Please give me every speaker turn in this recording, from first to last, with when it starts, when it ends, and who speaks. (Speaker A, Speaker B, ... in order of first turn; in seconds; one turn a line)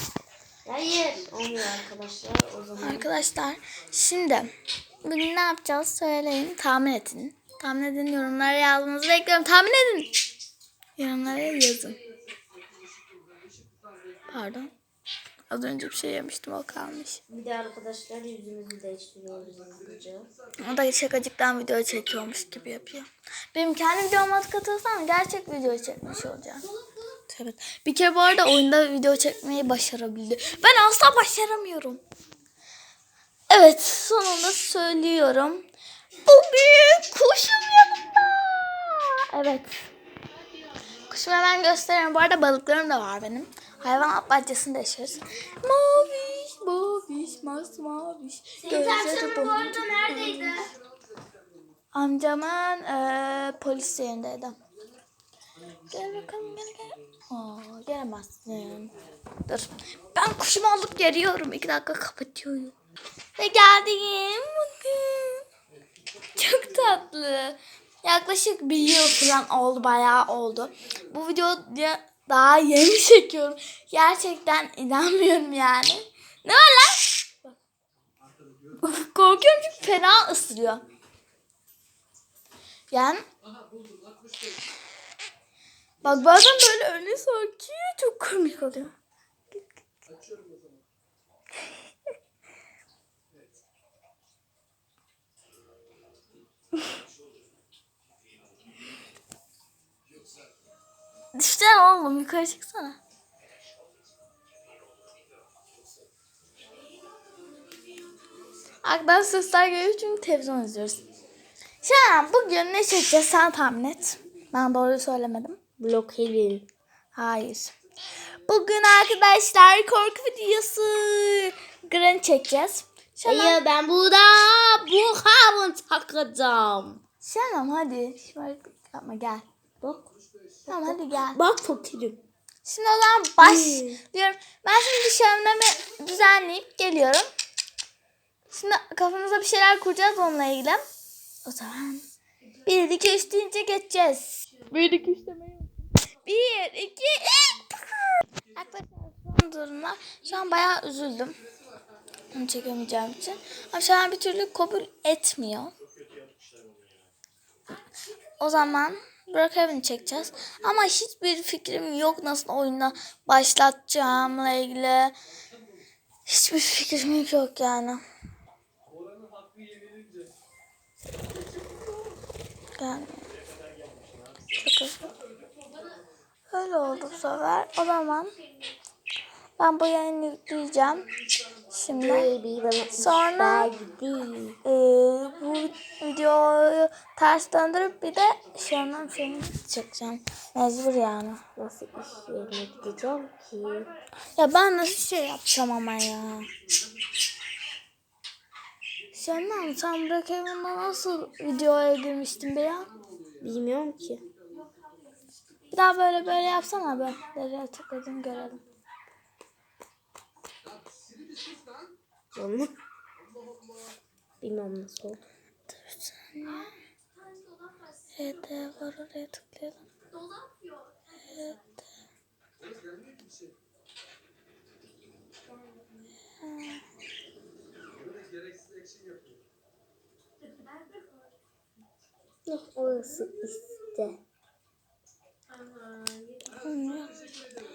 Speaker A: 0.6-3.1
Speaker B: 2.8-4.5
Speaker B: 5.0-10.1
Speaker B: 11.0-12.0
Speaker B: 14.3-14.7
Speaker B: 15.5-17.2
Speaker A: 17.3-20.3
Speaker B: 20.6-26.7
Speaker B: 27.3-32.0
Speaker B: 33.5-35.6
Speaker B: 36.2-39.7
Speaker B: 41.1-50.6
Speaker A: 48.6-50.7
Speaker B: 51.9-54.6
Speaker B: 55.9-58.9
Speaker B: 59.5-62.7
Speaker B: 63.4-65.4
Speaker B: 66.3-77.5
Speaker B: 78.7-80.8
Speaker B: 82.9-83.2
Speaker B: 86.0-88.9
Speaker B: 101.3-103.0
Speaker B: 108.8-111.0
Speaker B: 111.8-115.6
Speaker A: 115.8-116.7
Speaker B: 117.1-117.7
Speaker B: 118.5-123.6
Speaker A: 123.2-127.0
Speaker B: 127.2-129.4
Speaker A: 129.8-130.1
Speaker A: 130.7-132.2
Speaker B: 130.7-131.4
Speaker B: 132.6-137.3
Speaker A: 133.4-134.0
Speaker B: 138.5-140.8
Speaker B: 141.4-142.1
Speaker B: 142.7-151.3
Speaker B: 152.3-155.7
Speaker B: 158.4-165.1
Speaker B: 166.2-168.0
Speaker B: 172.8-173.2
Speaker B: 174.6-175.1
Speaker B: 176.5-178.3
Speaker B: 179.6-181.1
Speaker B: 181.7-182.3
Speaker A: 182.0-184.6
Speaker B: 183.0-183.7
Speaker B: 184.6-191.4
Speaker A: 191.6-193.9
Speaker B: 194.3-196.5
Speaker B: 199.1-202.9
Speaker A: 203.4-204.3
Speaker B: 205.7-208.6
Speaker A: 212.3-212.7
Speaker A: 214.4-215.2
Speaker B: 215.7-216.7
Speaker B: 218.2-219.8
Speaker B: 221.2-221.8
Speaker B: 226.4-226.8
Speaker A: 232.4-234.2
Speaker B: 236.5-237.1